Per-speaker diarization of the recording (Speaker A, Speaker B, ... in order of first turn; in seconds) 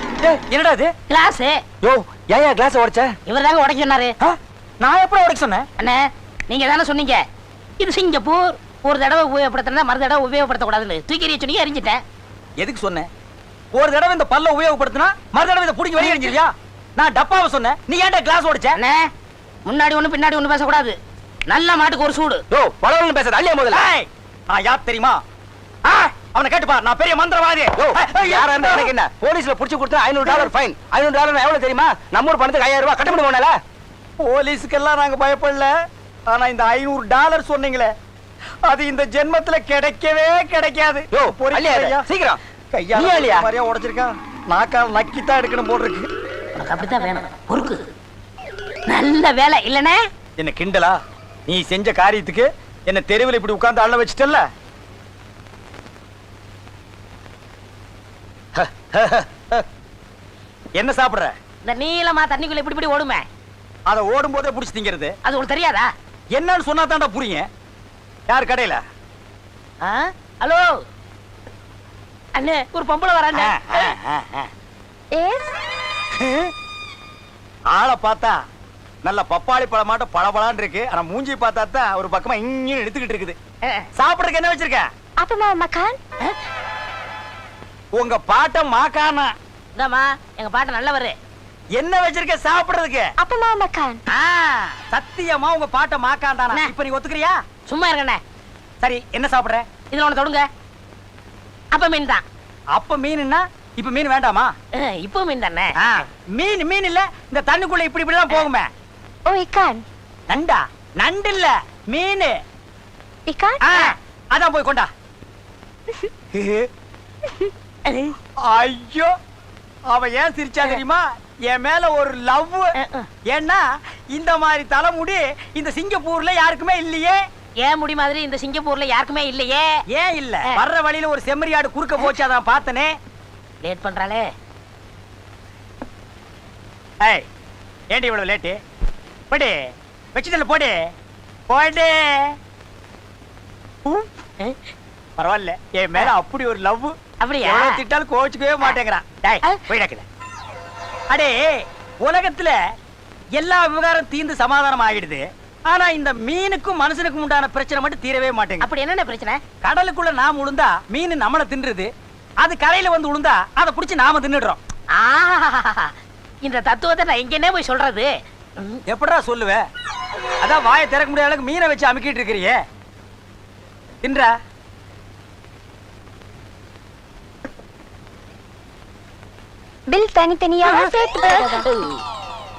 Speaker A: 0.2-0.9, 4.2-5.7, 12.6-13.1, 13.7-18.8, 23.7-25.2, 25.9-28.9, 34.2-35.7, 36.3-37.9, 38.6-42.0, 42.7-46.1, 50.4-54.5, 58.5-59.6, 60.8-61.3, 63.9-65.1, 66.3-67.5, 68.3-68.8, 73.3-74.5, 76.2-76.5, 77.7-78.4, 79.0-83.3, 84.0-84.9, 87.9-89.3, 91.8-93.1, 94.1-97.4, 98.8-99.7, 102.7-104.5, 105.8-108.7, 110.3-112.4, 113.6-114.9, 116.3-116.7, 118.4-119.1, 119.9-122.7, 123.2-127.2, 129.9-132.9, 137.9-138.6, 139.3-140.9, 141.5-142.3, 145.2-150.0, 151.1-152.6, 153.3-158.7, 159.6-164.6, 168.9-169.6, 170.4-172.6, 174.0-174.3
Speaker B: 1.1-1.6, 3.3-4.2, 5.8-7.2, 7.8-12.0, 16.0-16.3, 18.8-19.1, 19.7-20.9, 21.5-22.4, 46.5-47.8, 48.9-50.0, 61.6-63.2, 65.2-65.9, 69.8-70.7, 72.3-73.9, 89.7-91.2, 97.7-98.2, 99.9-100.5, 101.7-102.2, 104.7-105.9, 113.6-113.9, 117.8-118.1, 122.8-123.1, 127.6-129.8, 133.6-134.3, 147.2-147.8, 158.6-159.4, 164.9-168.8, 181.6-181.9
Speaker C: 1.8-3.1, 22.5-23.9, 27.8-33.5, 41.1-42.4, 43.0-43.4
Speaker D: 75.1-75.4, 85.2-86.0, 93.2-94.0, 109.2-109.8, 113.3-113.6, 179.9-181.7